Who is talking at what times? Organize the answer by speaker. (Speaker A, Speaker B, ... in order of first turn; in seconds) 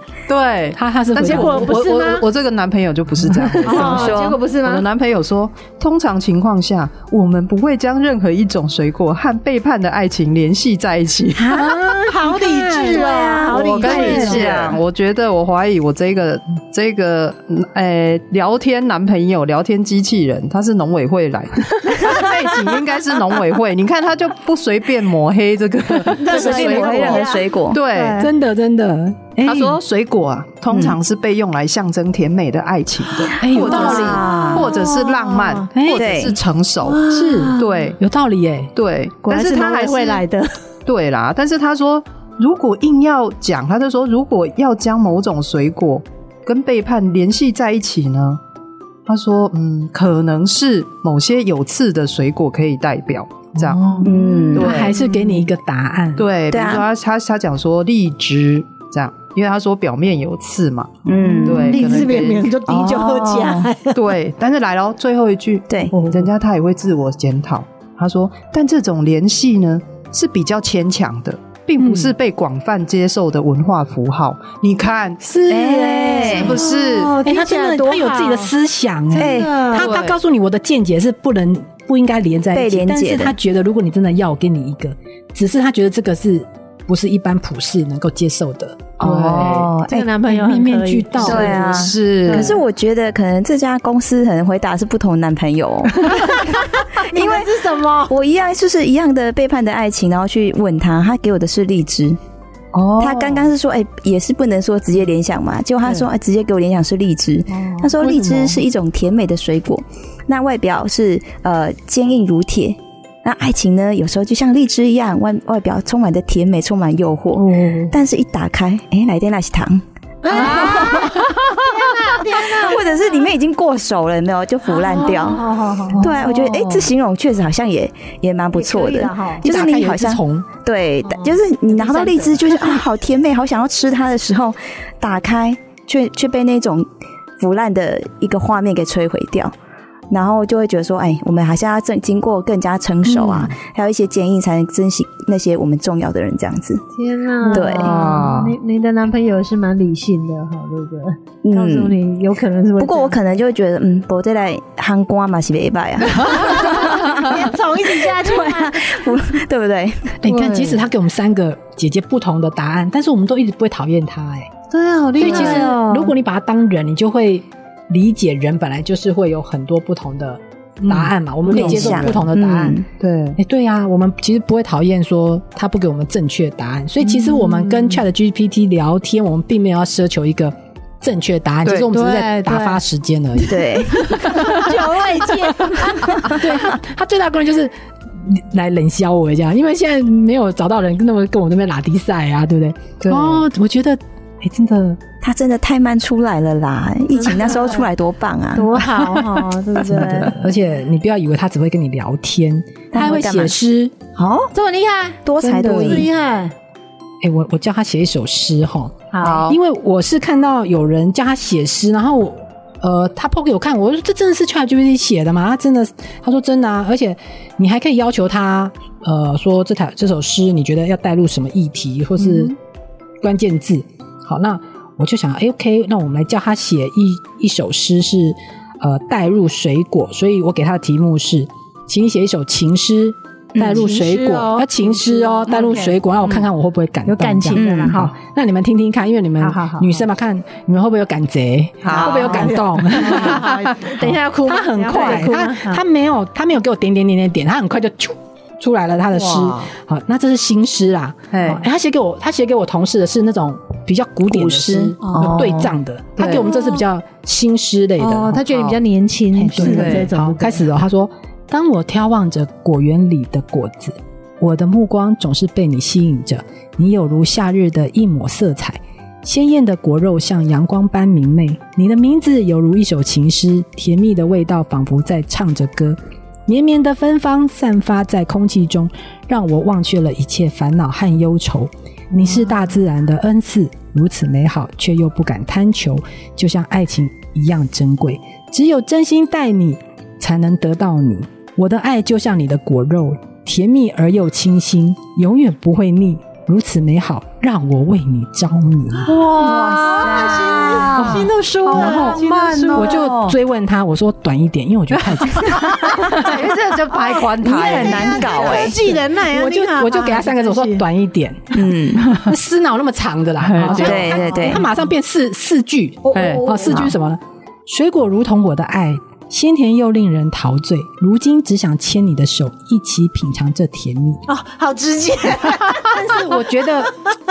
Speaker A: 0.3-11.6, 13.5-28.3, 29.4-38.0, 38.8-40.2, 40.9-48.4, 49.1-55.0, 56.2-62.5, 63.9-75.2, 76.2-77.1, 79.7-80.2, 89.0-89.7, 91.3-92.5, 102.7-103.5, 125.9-126.8, 143.1-143.5, 147.5-148.6, 160.3-160.8, 165.3-165.6, 170.9-172.2, 173.0-173.4, 193.0-193.4, 209.2-209.6, 241.8-243.7, 249.1-249.7, 251.3-251.6, 256.2-256.5, 259.6-260.1, 299.1-303.4, 305.2-308.8, 313.4-314.2, 316.1-316.5
Speaker B: 0.8-1.9, 3.3-3.8, 11.5-14.4, 28.2-29.8, 33.4-34.3, 35.7-36.1, 37.1-38.7, 53.7-56.3, 71.8-72.1, 75.2-76.6, 77.2-89.7, 90.2-91.6, 129.4-130.5, 160.2-164.5, 165.2-172.8, 173.4-184.8, 186.2-195.0, 199.9-204.0, 205.4-206.1, 207.2-222.6, 223.2-258.4, 259.4-299.2, 300.9-306.3, 309.3-311.6, 312.2-324.2, 325.6-326.9
Speaker C: 1.2-2.3, 3.6-4.9, 11.4-14.7, 26.1-28.3, 33.5-35.7, 36.8-37.7, 39.2-40.5, 54.0-54.6, 61.3-64.0, 65.9-66.3, 76.3-78.5, 79.1-79.9, 89.7-92.6, 96.2-98.1, 107.5-107.9, 120.2-123.3, 124.7-126.1, 128.5-129.5, 131.1-132.8, 146.9-153.2, 156.2-158.9, 164.7-166.1, 181.9-182.8, 183.4-186.3, 197.1-197.9, 198.6-200.4, 204.5-206.5, 209.1-209.5, 233.7-236.0, 237.1-238.1, 239.4-240.1, 241.9-245.8, 255.0-255.6, 256.5-256.8, 258.0-260.7, 299.1-303.0, 306.0-310.9, 313.9-314.7, 316.1-316.9, 324.3-327.1
Speaker D: 3.7-4.4, 12.9-14.8, 26.2-27.8, 30.7-31.0, 33.6-34.7, 35.9-36.4, 54.0-54.9, 56.5-56.9, 61.0-62.1, 62.7-63.7, 75.5-76.6, 79.2-79.6, 82.5-83.4, 89.0-90.1, 91.2-97.5, 98.1-102.2, 103.0-121.6, 122.2-136.9, 137.4-139.5, 140.1-146.8, 147.5-147.9, 151.4-152.0, 152.8-160.2, 171.5-172.9, 183.5-184.4, 185.9-186.3, 195.2-198.8, 199.8-200.3, 202.9-203.6, 204.2-204.5, 205.2-206.1, 233.6-233.8, 237.6-238.0, 254.3-255.7, 299.3-301.2, 307.4-308.8, 311.5-312.1, 313.7-314.6